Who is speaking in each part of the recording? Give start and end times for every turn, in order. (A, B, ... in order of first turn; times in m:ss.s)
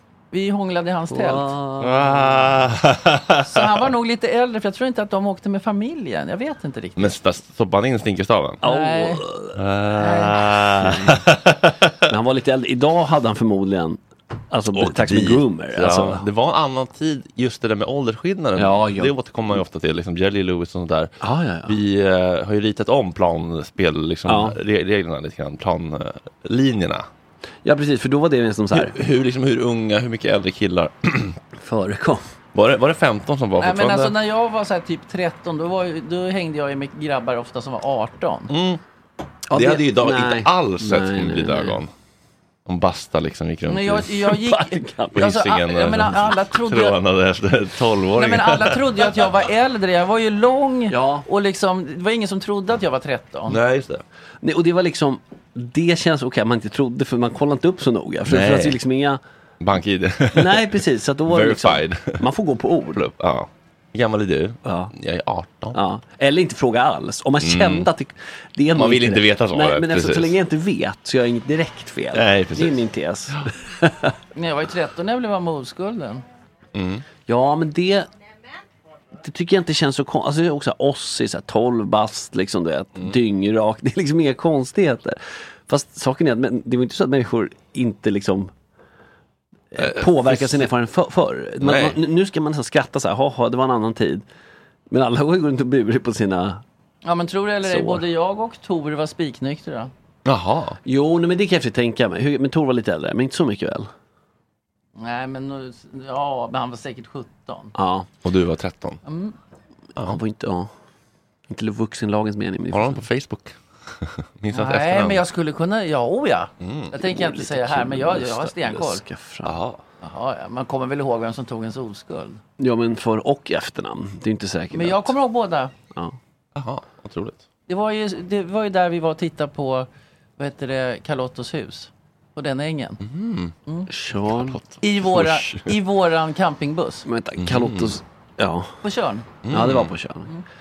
0:00.3-0:01.6 A
0:01.1-0:02.6 B
0:01.8-0:03.7 C
0:03.4-0:07.1 A
0:07.0-0:08.6 C
0:08.6-0:09.6 B
0:08.6-0:09.2 A
0:09.6-0:12.0 C
0:10.0-0:10.4 A
0:10.7-0:11.2 B
0:12.1-0:14.0 B
0:14.5-0:16.2 B
0:14.7-0:27.1 C
0:18.6-0:19.1 B
0:21.2-0:21.8 B
0:24.3-0:24.6 B
0:27.6-0:28.9 B
0:28.7-0:31.4 C
0:31.6-0:32.2 B
0:32.6-0:34.2 C
0:33.6-0:38.5 A
0:38.5-0:38.8 C
0:39.5-0:41.8 B
0:39.5-0:41.9 C
0:42.7-0:44.1 C
0:43.7-0:47.0 A
0:44.2-0:45.2 B
0:45.2-0:48.9 C
0:48.1-0:53.6 A
0:50.9-0:51.2 B
0:53.5-0:54.0 C
0:54.4-0:59.2 B
0:58.3-0:58.8 C
0:59.6-1:02.3 C
1:00.3-1:03.0 B
1:03.0-1:05.8 C
1:04.6-1:04.9 B
1:05.7-1:14.1 B
1:07.4-1:07.9 C
1:08.7-1:10.4 C
1:12.1-1:12.8 C
1:14.4-1:16.2 A
1:16.8-1:17.0 C
1:17.3-1:18.1 B
1:19.2-1:28.5 B
1:29.7-1:34.2 B
1:29.8-1:30.7 C
1:31.6-1:32.0 C
1:34.9-1:36.6 B
1:37.0-1:39.9 A
1:37.6-1:38.0 B
1:40.2-1:40.8 C
1:40.8-1:43.9 B
1:45.0-1:47.7 A
1:47.8-1:48.1 B
1:48.2-1:49.0 C
1:49.1-1:49.4 A
1:50.0-1:50.7 B
1:51.5-1:53.0 B
1:52.7-1:55.2 C
1:54.5-1:59.0 A
1:56.6-1:56.9 C
1:57.0-1:59.6 B
1:59.4-1:59.8 C
2:00.0-2:02.4 A
2:02.6-2:05.1 B
2:04.7-2:05.8 A
2:06.6-2:07.4 C
2:07.7-2:13.0 A
2:13.0-2:13.5 C
2:13.9-2:14.6 B
2:14.3-2:15.7 C
2:14.8-2:17.1 A
2:17.1-2:18.8 B
2:17.4-2:17.9 C
2:18.8-2:19.4 A
2:19.4-2:20.0 C
2:19.5-2:20.3 B